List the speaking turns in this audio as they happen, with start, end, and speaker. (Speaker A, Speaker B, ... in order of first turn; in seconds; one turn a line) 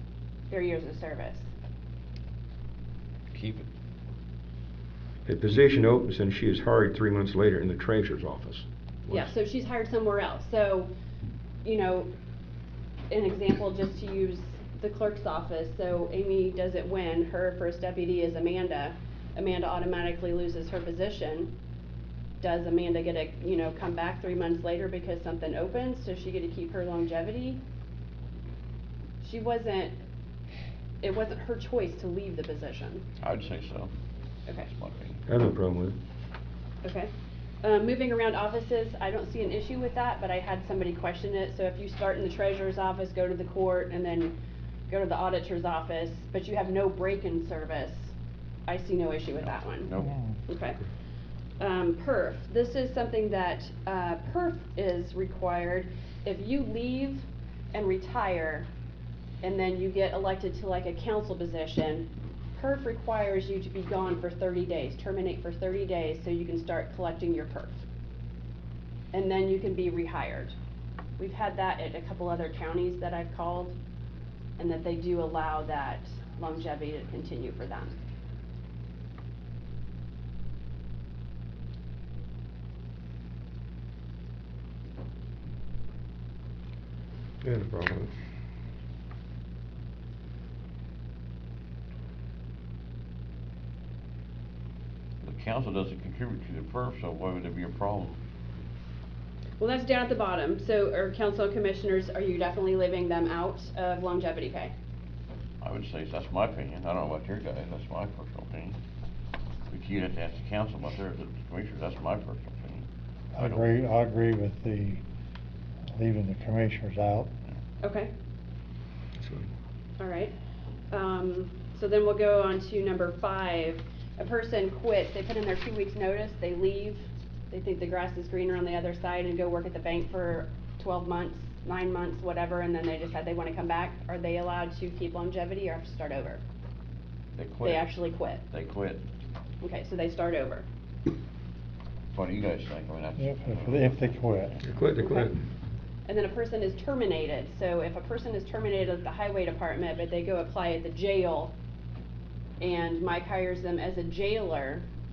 Speaker A: 0.5-1.5
Speaker B: 3.3-3.7
Speaker C: 5.3-9.3
Speaker A: 9.1-10.9
Speaker A: 11.6-12.1
Speaker A: 13.1-21.5
Speaker A: 22.4-27.6
Speaker A: 29.2-29.9
Speaker A: 31.0-33.0
Speaker B: 33.2-33.9
Speaker B: 34.6-35.2
Speaker C: 35.3-36.0
Speaker A: 36.8-37.1
Speaker A: 37.6-44.4
Speaker A: 44.9-48.1
Speaker A: 48.7-49.9
Speaker B: 49.4-50.2
Speaker A: 50.5-50.8
Speaker A: 51.6-58.7
Speaker A: 59.4-67.8
Speaker A: 69.1-70.5
Speaker A: 71.2-73.8
Speaker A: 74.6-78.0
Speaker C: 87.4-88.1
Speaker B: 95.2-98.2
Speaker A: 99.6-104.7
Speaker B: 105.6-108.8
Speaker B: 109.7-113.7
Speaker D: 113.3-115.0
Speaker D: 115.9-117.3
Speaker A: 117.8-118.1
Speaker C: 119.2-119.5
Speaker A: 120.0-120.3
Speaker A: 120.9-136.4
Speaker B: 137.3-137.9
Speaker A: 137.6-138.4
Speaker B: 138.5-139.0
Speaker A: 139.6-140.7
Speaker B: 142.1-144.7
Speaker D: 143.2-144.6
Speaker C: 144.6-145.4
Speaker A: 145.0-145.3
Speaker A: 146.1-151.6
Speaker A: 152.6-154.8